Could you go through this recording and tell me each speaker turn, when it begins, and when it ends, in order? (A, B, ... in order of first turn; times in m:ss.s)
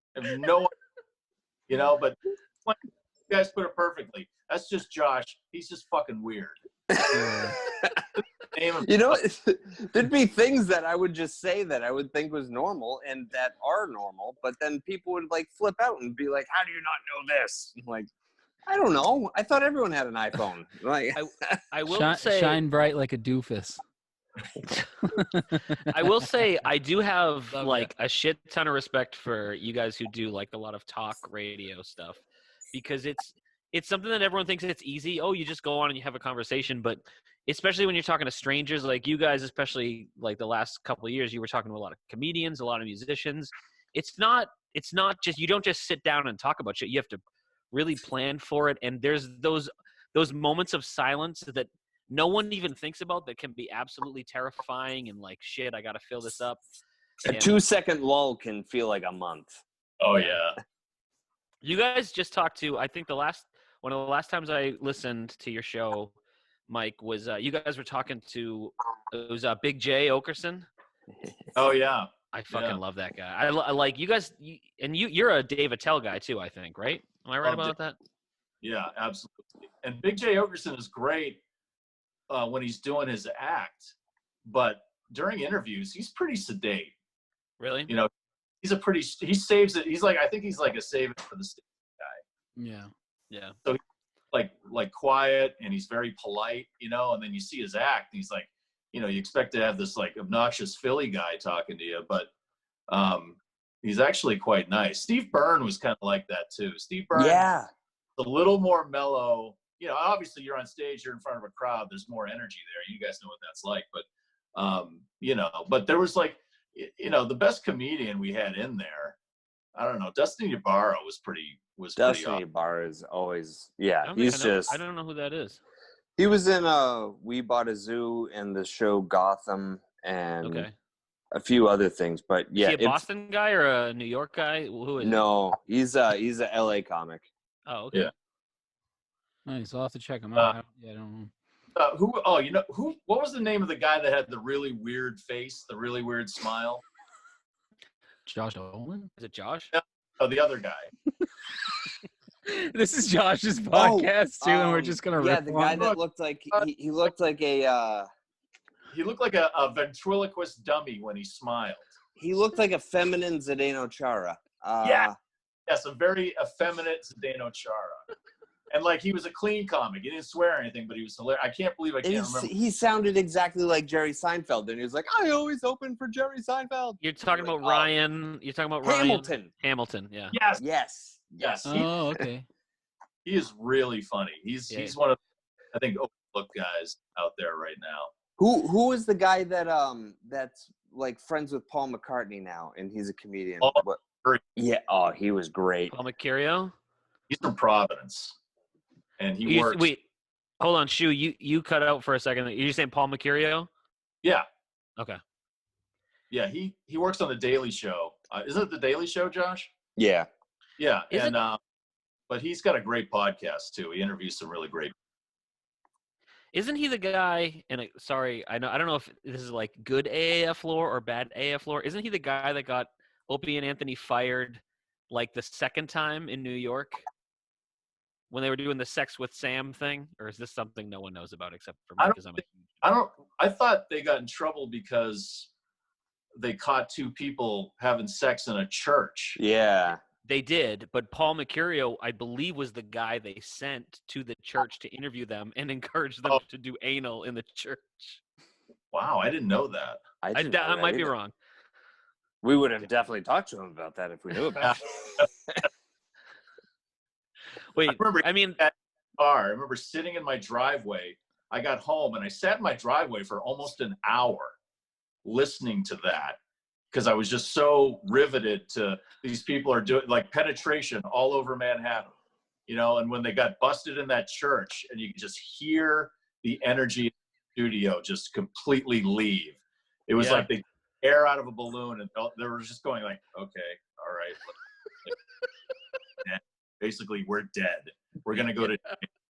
0:00.1-0:00.7 A
0:01.7-0:06.6 A
0:06.9-0:08.0 B
0:07.1-0:07.6 C
0:08.5-0:09.2 A
0:08.8-0:18.1 B
0:18.6-0:21.6 B
0:21.1-0:22.6 D
0:21.9-0:23.8 C
0:24.7-0:26.0 C
0:25.9-0:32.2 D
0:27.5-0:27.9 C
0:32.7-0:47.2 D
0:47.7-0:56.6 D
0:57.3-0:57.5 D
0:57.3-0:59.6 B
1:00.0-1:00.6 A
1:01.6-1:06.1 D
1:06.7-1:10.7 D
1:11.5-1:12.8 A
1:12.3-1:18.0 D
1:17.4-1:17.7 A
1:18.6-1:21.4 A
1:22.3-1:23.9 A
1:24.4-1:26.9 A
1:27.6-1:27.9 D
1:28.6-1:32.2 A
1:32.6-1:32.9 C
1:34.3-1:42.3 A
1:42.9-1:47.5 A
1:47.1-1:47.7 B
1:48.2-1:59.2 A
1:59.7-2:02.4 A
2:02.0-2:04.8 B
2:04.0-2:05.6 D
2:06.2-2:10.7 B
2:10.4-2:10.7 D
2:11.3-2:13.0 B
2:12.6-2:15.2 D
2:15.0-2:17.3 B
2:17.6-2:18.1 D
2:19.5-2:21.3 C
2:21.7-2:26.8 A
2:28.2-2:29.1 C
2:29.2-2:29.7 D
2:29.7-2:30.9 A
2:32.4-2:36.0 C
2:33.7-2:38.1 B
2:38.9-2:41.9 A
2:42.2-2:45.2 B
2:44.8-2:45.1 A
2:45.7-2:48.0 A
2:48.7-2:52.5 A
2:52.0-2:57.9 B
2:57.0-3:00.3 D
2:58.8-2:59.5 B
3:00.3-3:00.6 A
3:00.6-3:02.2 B
3:01.4-3:01.9 A
3:01.6-3:02.4 C
3:03.2-3:05.2 A
3:04.7-3:04.9 D
3:05.7-3:08.1 A
3:08.4-3:14.0 B
3:13.6-3:14.4 A
3:14.6-3:15.9 B
3:15.9-3:16.7 D
3:17.3-3:18.3 A
3:19.2-3:19.9 A
3:19.4-3:20.0 D
3:20.6-3:23.7 D
3:26.3-3:29.7 A
3:30.0-3:30.3 B
3:30.8-3:31.6 A
3:32.3-3:34.9 A
3:36.5-3:47.0 D
3:48.3-3:52.5 D
3:52.8-3:55.5 A
3:56.4-3:59.4 A
3:59.4-4:00.0 B
4:00.2-4:08.2 D
4:08.9-4:10.0 A
4:10.2-4:11.1 B
4:10.3-4:11.3 D
4:12.4-4:15.6 B
4:14.6-4:15.3 A
4:17.7-4:18.6 D
4:17.9-4:24.6 A
4:25.2-4:26.4 A
4:26.9-4:32.1 A
4:32.7-4:44.4 A
4:40.2-4:40.5 D
4:46.2-4:49.0 A